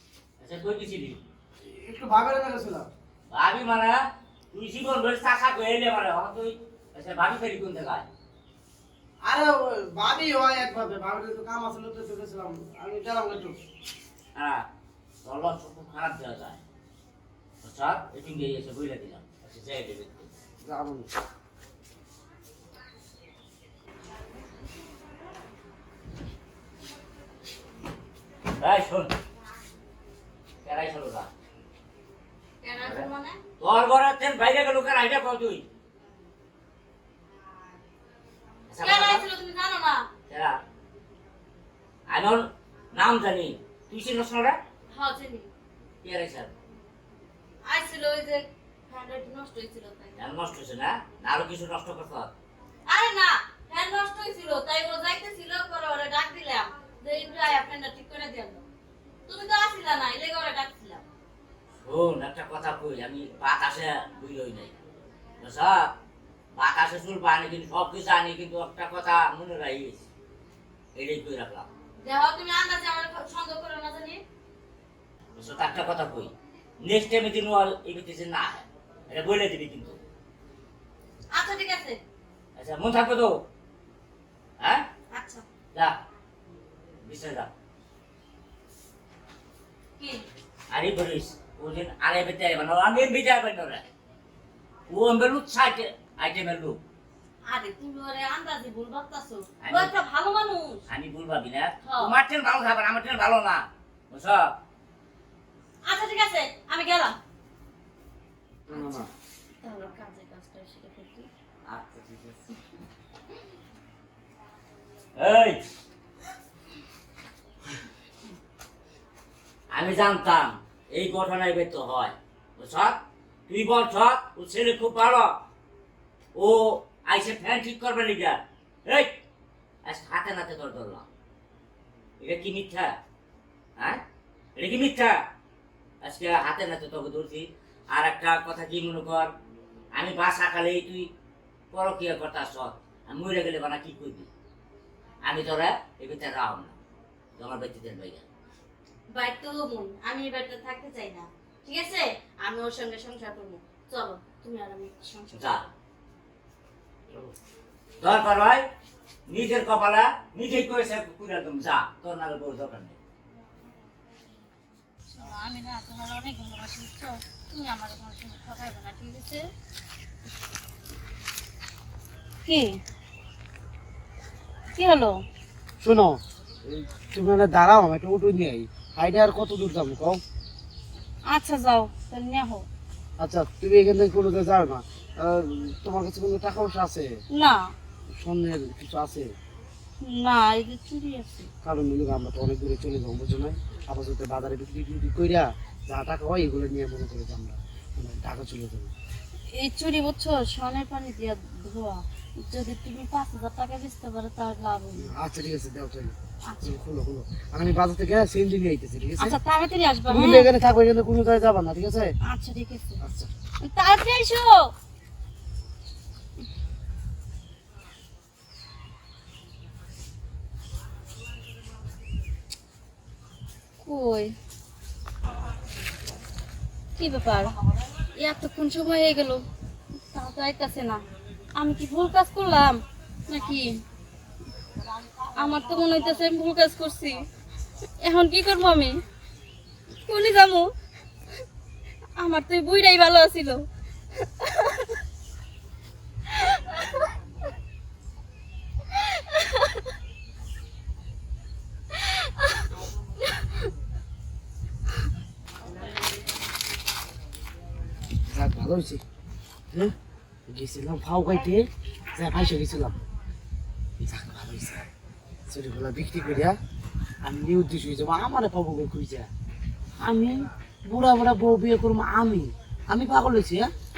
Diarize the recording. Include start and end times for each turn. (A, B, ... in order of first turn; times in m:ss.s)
0:00.4-0:01.2 A
0:01.6-0:02.9 B
0:03.3-0:04.0 A
0:04.5-0:08.1 A
0:09.2-0:13.6 B
0:14.4-0:14.6 A
0:15.2-0:16.6 A
0:17.6-0:20.3 A
0:20.6-0:21.1 B
0:28.6-0:29.1 A
0:30.6-0:31.3 A
0:32.6-0:33.4 C
0:32.8-0:33.1 A
0:33.6-0:35.6 A
0:38.7-0:39.2 A
0:38.8-0:40.1 C
0:40.3-0:40.6 A
0:42.1-0:44.6 A
0:44.9-0:45.5 C
0:46.0-0:46.5 A
0:47.7-0:50.2 C
0:50.2-0:52.3 A
0:52.9-0:58.6 C
0:59.3-1:01.0 C
1:01.8-1:04.8 A
1:05.4-1:05.9 A
1:06.6-1:10.1 A
1:11.0-1:11.7 A
1:12.0-1:14.2 C
1:15.4-1:20.0 A
1:21.3-1:22.0 C
1:22.6-1:23.4 A
1:24.6-1:24.9 A
1:25.1-1:25.4 C
1:27.0-1:27.5 A
1:30.0-1:30.3 C
1:30.7-1:33.8 A
1:34.9-1:36.8 A
1:37.5-1:40.8 C
1:39.6-1:39.9 A
1:40.9-1:44.5 A
1:41.8-1:42.2 C
1:45.8-1:47.2 C
1:48.7-1:49.1 B
1:48.7-1:49.1 C
1:49.6-1:51.3 C
1:51.7-1:52.4 A
1:55.2-1:55.6 A
1:59.7-2:05.4 A
2:06.4-2:09.1 A
2:09.8-2:11.1 A
2:12.2-2:12.9 A
2:14.6-2:15.2 A
2:16.0-2:19.3 A
2:20.0-2:21.1 A
2:21.7-2:24.3 A
2:25.2-2:26.7 A
2:27.4-2:28.3 A
2:29.1-2:35.3 C
2:35.3-2:35.7 A
2:38.0-2:38.7 A
2:39.3-2:43.0 A
2:45.1-2:49.5 C
2:52.5-2:52.8 C
2:54.8-2:55.2 C
2:55.8-3:00.2 B
3:01.3-3:02.7 C
3:03.2-3:07.1 B
3:07.3-3:07.7 C
3:08.1-3:09.3 B
3:10.0-3:11.5 C
3:11.6-3:18.9 B
3:19.5-3:25.1 C
3:25.0-3:29.4 B
3:26.5-3:26.8 C
3:29.2-3:30.5 C
3:30.1-3:32.2 B
3:32.2-3:33.0 C
3:33.0-3:33.3 B
3:33.6-3:34.7 C
3:43.8-3:44.4 C
3:47.0-3:47.6 C
3:48.2-3:49.4 C
3:50.1-3:51.0 C
3:51.6-3:53.8 C
3:55.4-3:57.3 C
3:58.0-3:59.0 C
4:00.0-4:00.7 C
4:02.2-4:03.6 C
4:04.2-4:04.8 C
4:06.3-4:07.0 C
4:09.0-4:09.7 C
4:12.0-4:12.6 C
4:18.3-4:19.0 B
4:20.5-4:23.0 B
4:24.0-4:24.8 B
4:25.5-4:26.6 B
4:27.2-4:29.3 B
4:30.0-4:33.7 B